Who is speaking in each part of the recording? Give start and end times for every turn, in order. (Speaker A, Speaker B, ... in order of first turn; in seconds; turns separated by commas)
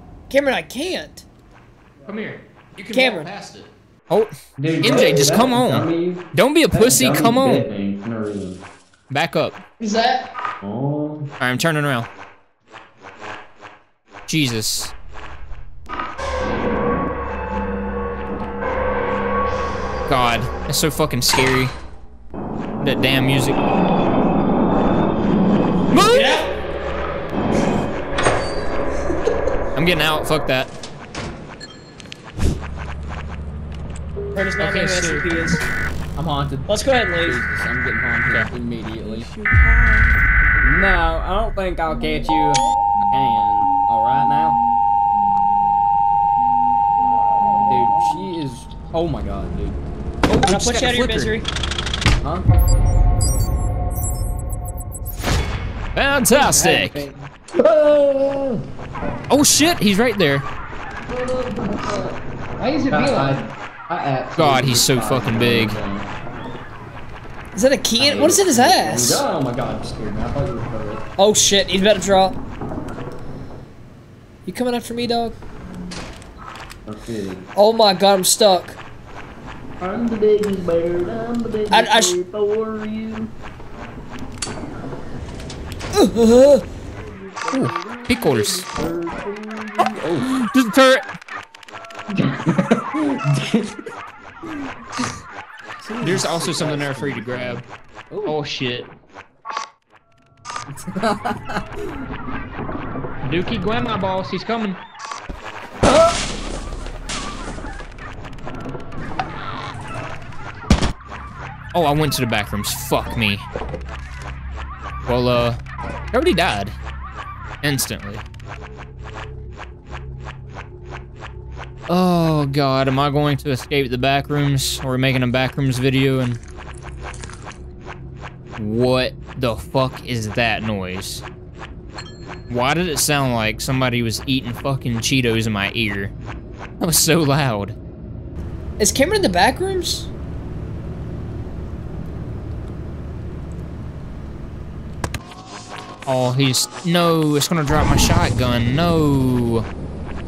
Speaker A: 0.3-1.2, Speaker B: 2.0-7.7, Speaker A: 2.9-3.3, Speaker C: 4.6-8.6, Speaker B: 9.1-9.6, Speaker A: 9.8-10.3, Speaker C: 10.6-11.3, Speaker B: 11.4-12.1, Speaker B: 14.3-14.9, Speaker B: 20.1-21.7, Speaker B: 22.8-23.6, Speaker B: 25.9-26.4, Speaker A: 26.1-26.5, Speaker B: 29.8-30.7, Speaker A: 34.3-35.6, Speaker B: 34.6-35.2, Speaker C: 36.1-39.3, Speaker A: 36.7-37.4, Speaker C: 40.6-44.6, Speaker C: 47.5-49.8, Speaker B: 50.3-51.3, Speaker A: 50.4-51.5, Speaker B: 55.9-57.0, Speaker A: 56.3-57.3, Speaker C: 57.5-58.6, Speaker B: 59.3-60.5, Speaker C: 61.1-62.2, Speaker A: 62.6-63.4, Speaker C: 62.9-66.1, Speaker B: 64.3-65.8, Speaker A: 67.5-69.2, Speaker C: 68.0-71.0, Speaker A: 71.2-72.4, Speaker A: 74.5-75.4, Speaker C: 76.8-77.5, Speaker A: 77.5-78.8, Speaker C: 79.8-83.3, Speaker A: 81.7-82.2, Speaker A: 85.9-86.6, Speaker C: 87.0-90.3, Speaker B: 87.5-88.7, Speaker B: 90.2-91.0, Speaker C: 92.1-93.8, Speaker C: 95.8-98.3, Speaker B: 96.0-97.7, Speaker B: 98.2-98.9, Speaker C: 100.7-101.9, Speaker B: 103.2-104.8, Speaker B: 111.7-113.5, Speaker B: 115.1-115.6, Speaker B: 116.1-116.8, Speaker B: 117.6-118.2, Speaker B: 121.9-126.4, Speaker B: 128.6-131.2, Speaker B: 132.5-136.1, Speaker B: 136.8-137.8, Speaker A: 138.8-140.1, Speaker B: 146.1-149.7